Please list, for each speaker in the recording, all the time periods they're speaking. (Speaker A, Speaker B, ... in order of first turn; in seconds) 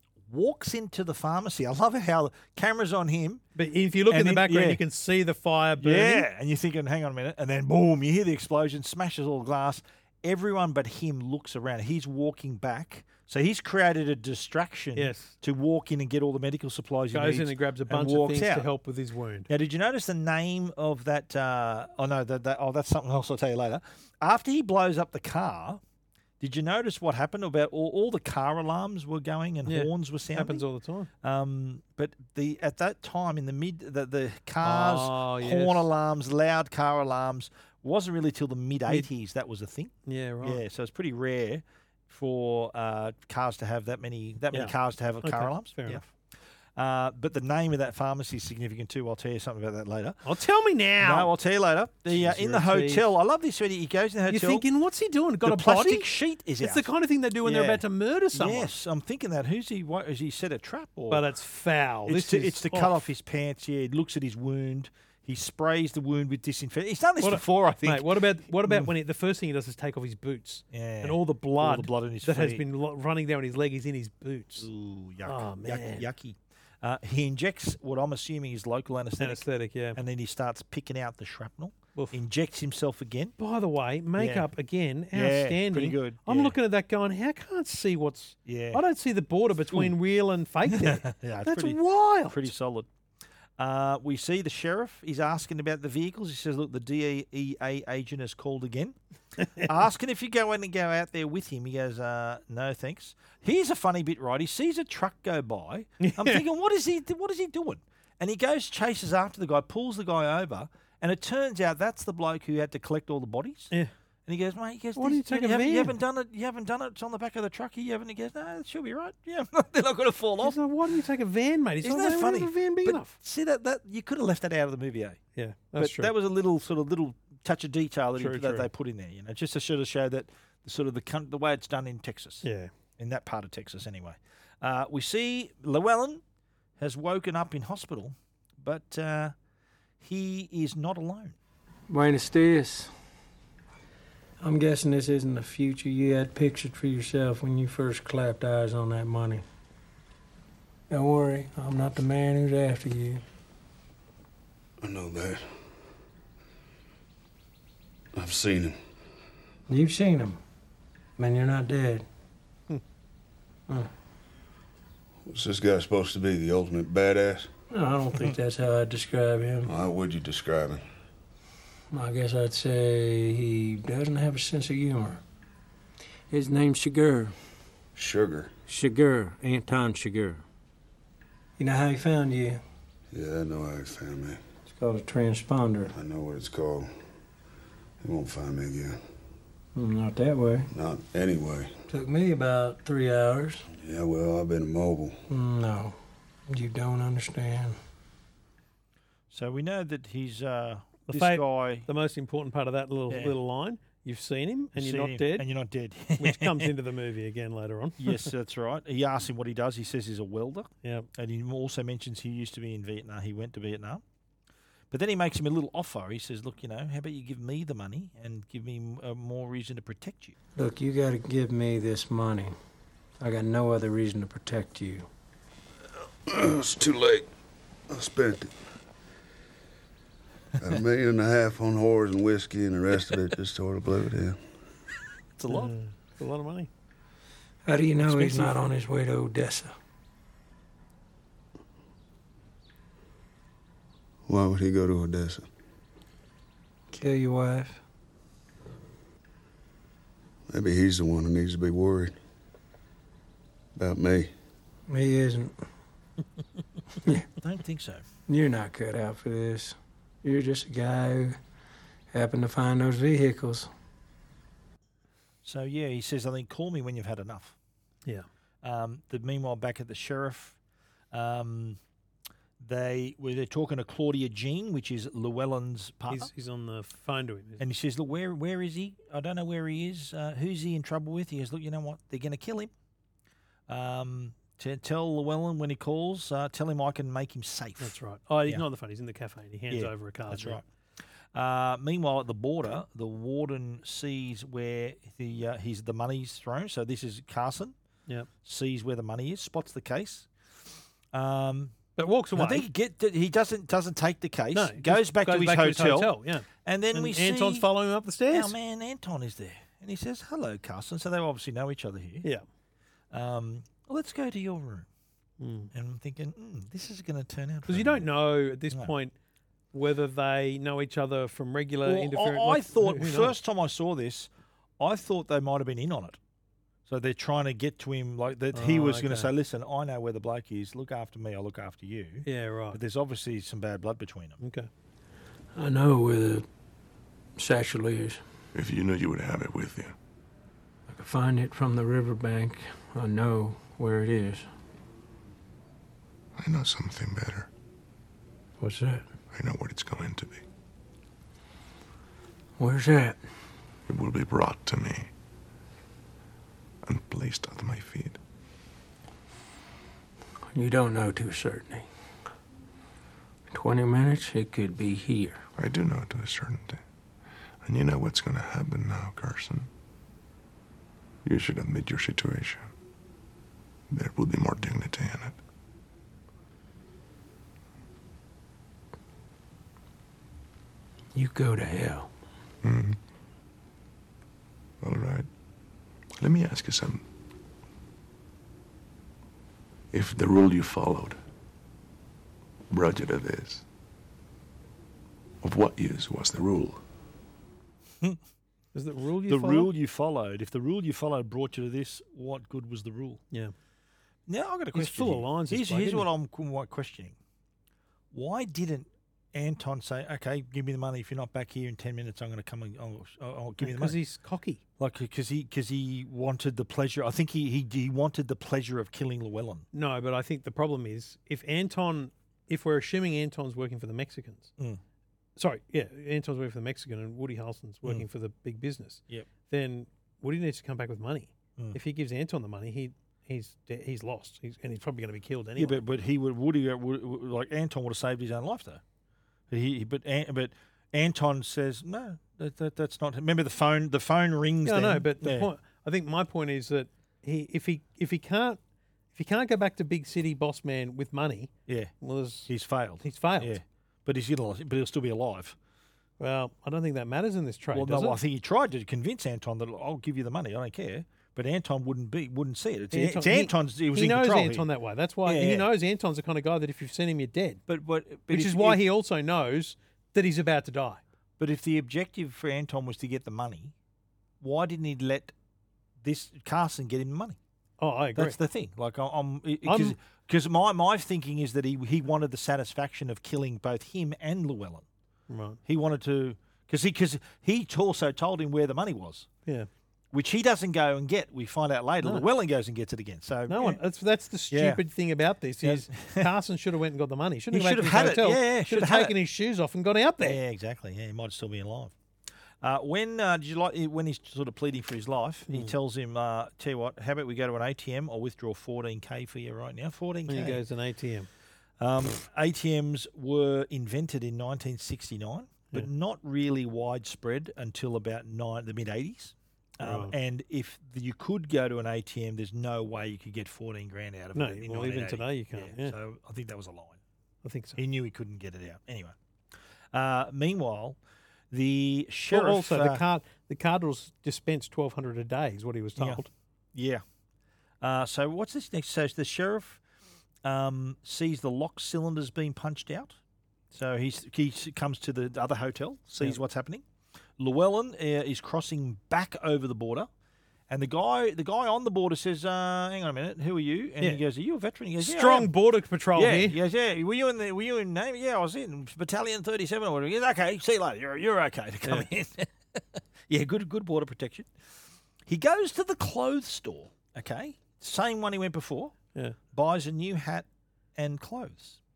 Speaker A: 0.3-3.4, 4.1-4.8, 5.8-18.7, 19.5-25.8, 26.4-30.6, 31.2-46.0, 46.8-50.2, 51.0-54.6, 55.4-56.9, 57.4-61.2, 62.1-68.1, 70.7-72.6, 74.6-83.3, 84.2-84.5, 85.1-86.5, 88.4-88.8, 89.7-89.9, 90.6-91.8, 92.3-92.9, 93.6-99.0, 99.6-113.7, 114.2-120.6, 121.8-125.2, 125.8-132.4, 133.0-136.2, 136.8-139.3, 140.0-141.3, 199.3-201.8, 203.1-203.3, 204.7-206.7, 208.0-214.0, 214.9-220.3, 235.4-235.7, 257.4-258.0, 265.4-267.6, 268.6-270.6, 271.1-271.8, 272.6-276.3, 277.6-282.7, 283.7-287.9, 289.7-290.6, 291.3-297.7, 298.4-300.3, 301.1-301.8, 302.3-307.7, 308.3-312.2, 313.1-314.9, 315.7-318.1, 321.8-326.2, 326.9-334.4, 399.3-403.2, 404.3-407.2, 408.1-414.0, 414.8-419.6, 435.6-438.8, 439.5-445.5, 451.7-451.9, 452.5-455.6, 457.7-464.7, 465.2-465.7, 467.7-468.8, 471.4-473.7, 474.4-475.3, 476.0-477.4, 478.1-484.9, 485.6-489.3, 490.1-493.8, 494.5-494.8, 495.6-496.3, 497.5-499.1, 500.2-501.9, 502.6-510.6, 511.8-527.0, 527.8-529.1, 529.9-531.0, 531.5-533.0, 536.0-536.2, 536.7-537.0, 537.8-539.8, 540.4-543.2, 543.7-546.8, 547.4-550.1, 550.7-555.5, 556.1-564.5, 565.2-568.9, 569.5-571.8
Speaker B: 3.5-6.2, 14.9-15.3, 17.1-19.5, 29.7-31.1, 34.6-35.9, 40.1-40.6, 44.5-46.0, 50.2-51.3, 52.1-53.0, 54.3-56.1, 56.6-58.7, 61.1-63.1, 67.2-74.7, 75.2-76.0, 79.2-80.0, 83.4-92.4, 99.4-99.7, 106.0-106.4, 115.0-115.9, 120.4-123.1, 125.3-126.1, 128.2-128.7, 132.4-132.7, 201.1-205.4, 206.2-208.3, 235.5-236.7, 238.0-238.5, 276.1-277.6, 287.8-290.6, 301.9-302.7, 304.5-308.5, 315.4-315.7, 317.7-319.1, 319.7-323.3, 328.5-329.3, 332.2-332.8, 334.4-334.7, 398.7-399.7, 404.7-406.1, 413.6-414.6, 419.7-424.5, 425.4-435.8, 444.6-448.6, 449.1-452.5, 453.0-453.5, 456.2-458.2, 462.9-467.6, 468.3-471.0, 477.8-478.4, 479.6-479.9, 485.3-485.6, 493.5-500.4, 505.5-505.7, 510.3-511.3, 519.8-520.1, 524.3-525.9, 527.4-527.8, 532.3-536.3, 555.0-556.5
Speaker C: 141.9-142.9, 144.4-149.4, 150.9-153.2, 159.7-160.4, 161.2-162.0, 167.7-169.7, 171.9-175.2, 176.3-177.3, 178.7-180.4, 181.6-182.6, 184.7-185.9, 189.7-190.7, 191.9-193.7, 195.3-195.9, 196.5-197.8, 220.6-222.6, 223.2-225.1, 237.6-239.7, 246.9-247.8, 254.9-255.5, 258.3-261.4, 262.1-263.7, 335.5-336.4, 337.4-338.2, 340.9-344.5, 348.6-349.1, 352.6-353.2, 360.5-361.9, 363.5-365.4, 381.1-382.1
Speaker D: 154.8-155.5, 158.2-158.8, 165.2-167.5, 169.6-170.8, 178.0-178.5, 183.1-184.4, 185.9-186.9, 188.0-189.0, 190.7-191.7, 193.8-195.2, 226.3-227.2, 227.9-228.5, 230.6-234.4, 244.3-245.4, 250.5-252.1, 253.8-254.3
Speaker E: 338.5-339.9, 346.4-347.5, 349.3-350.4, 353.9-355.1, 356.8-358.2, 365.6-366.8, 367.6-369.7, 371.2-372.7, 373.9-375.4, 382.6-383.0, 384.8-385.3, 386.2-387.0, 389.9-391.2, 392.7-393.6, 395.4-396.8